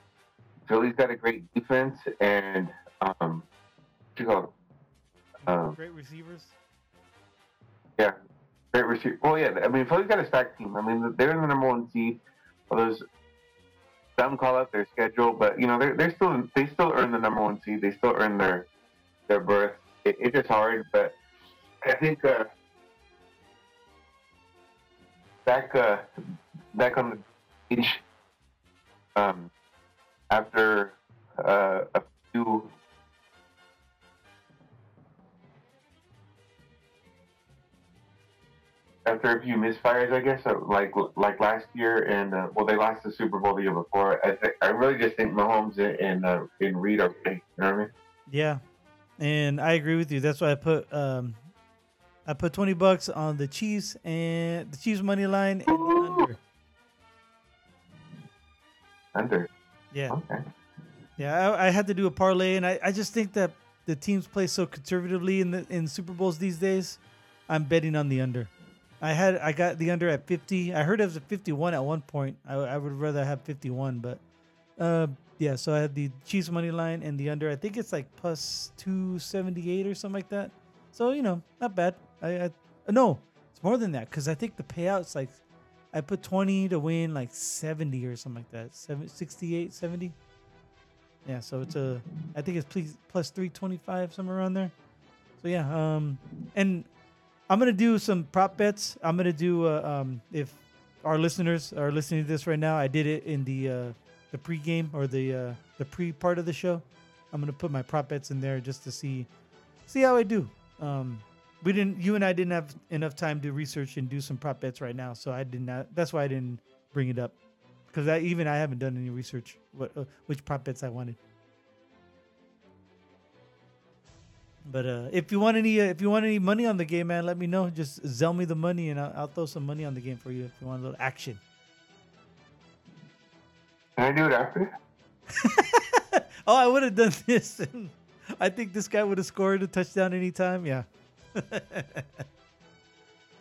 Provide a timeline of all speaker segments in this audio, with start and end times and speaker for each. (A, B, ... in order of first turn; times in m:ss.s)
0:00.6-0:03.5 A
0:04.2-0:04.5 A
0:05.4-0:05.8 A
0:05.4-0:06.5 B
0:08.7-0:13.0 A
0:14.2-0:18.7 A
0:19.3-0:21.2 A
0:21.8-0:22.5 A
0:25.4-0:26.1 A
0:26.7-0:28.0 A
0:29.1-0:29.5 A
0:30.3-0:32.7 A
0:39.0-0:47.9 A
0:48.3-0:48.6 B
0:49.2-0:51.4 B
0:52.2-0:56.4 B
0:55.7-0:56.2 A
0:59.1-0:59.5 A
0:59.9-1:00.2 B
1:00.1-1:00.4 A
1:01.2-1:14.2 B
1:14.8-1:25.4 B
1:25.9-1:30.2 B
1:31.2-1:34.7 B
1:35.4-1:36.9 B
1:37.5-1:49.3 B
1:49.9-1:57.4 B
1:57.9-2:01.2 B
2:04.7-2:11.4 B
2:14.0-2:14.7 A
2:15.3-2:22.2 B